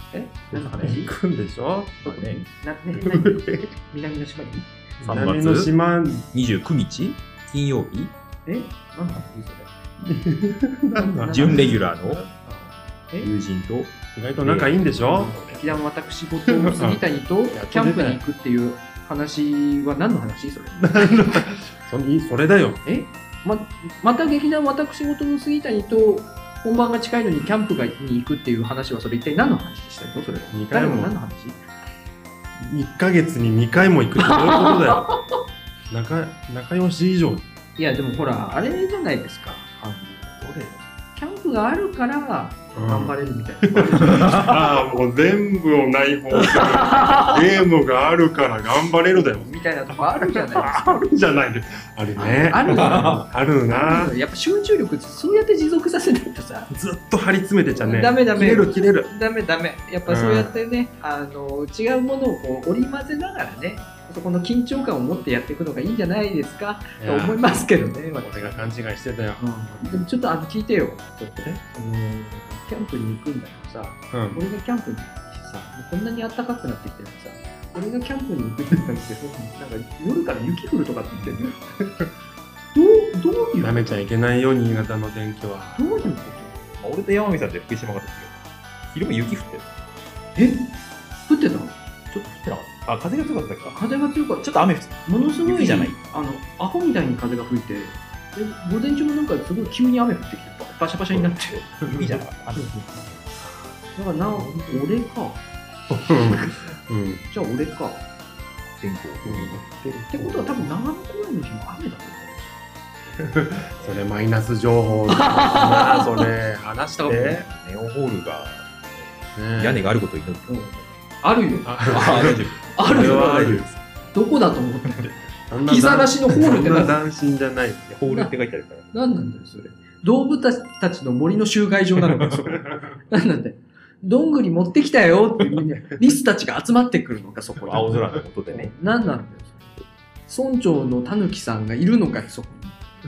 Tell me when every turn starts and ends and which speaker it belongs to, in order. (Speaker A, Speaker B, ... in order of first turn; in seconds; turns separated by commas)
Speaker A: 0.1-1.1, Speaker B: 0.5-2.0, Speaker C: 2.0-2.5, Speaker A: 2.0-4.7, Speaker B: 3.0-3.7, Speaker B: 5.0-6.3, Speaker C: 5.0-5.7, Speaker C: 6.3-8.1, Speaker A: 8.5-9.7, Speaker B: 10.1-11.8, Speaker A: 10.9-11.7, Speaker C: 11.3-12.3, Speaker B: 12.3-12.7, Speaker C: 13.2-15.4, Speaker B: 14.2-15.6, Speaker A: 15.1-21.2, Speaker B: 16.5-18.2, Speaker B: 20.8-22.8, Speaker A: 22.9-31.6, Speaker B: 30.5-31.1, Speaker B: 32.6-35.2, Speaker A: 34.3-35.2, Speaker B: 35.9-37.4, Speaker A: 37.8-44.6, Speaker B: 40.4-40.7, Speaker B: 42.8-54.1, Speaker C: 44.1-44.5, Speaker A: 46.4-47.4, Speaker A: 49.1-51.1, Speaker A: 52.2-56.7, Speaker C: 52.7-53.2, Speaker B: 56.7-59.1, Speaker A: 57.7-68.7, Speaker B: 60.1-60.6, Speaker B: 67.0-67.4, Speaker B: 68.2-69.8, Speaker A: 69.4-82.0, Speaker B: 74.1-74.4, Speaker B: 81.2-81.5, Speaker A: 82.7-84.0, Speaker B: 83.6-85.9, Speaker A: 85.8-86.6, Speaker C: 86.8-89.7, Speaker A: 90.4-90.7, Speaker A: 91.3-91.8, Speaker C: 92.1-93.8, Speaker A: 93.7-94.5, Speaker C: 94.4-96.0, Speaker A: 95.1-101.9, Speaker C: 101.1-103.2, Speaker A: 102.5-103.0, Speaker A: 104.0-105.4, Speaker B: 104.4-104.8, Speaker B: 105.9-107.2, Speaker A: 106.3-106.5, Speaker A: 107.3-108.0, Speaker C: 108.7-109.6, Speaker B: 109.2-110.7, Speaker A: 110.1-112.5, Speaker B: 113.2-117.4, Speaker C: 113.8-114.0, Speaker A: 115.1-116.3, Speaker C: 117.0-120.7, Speaker A: 117.1-117.4, Speaker B: 119.3-119.9, Speaker A: 120.5-123.5, Speaker B: 121.7-123.7, Speaker C: 121.9-123.8, Speaker A: 124.1-127.0, Speaker B: 125.0-127.9, Speaker C: 127.9-128.9, Speaker A: 128.1-128.3, Speaker A: 128.9-139.7, Speaker B: 132.5-133.0, Speaker C: 137.6-138.7, Speaker A: 140.3-142.8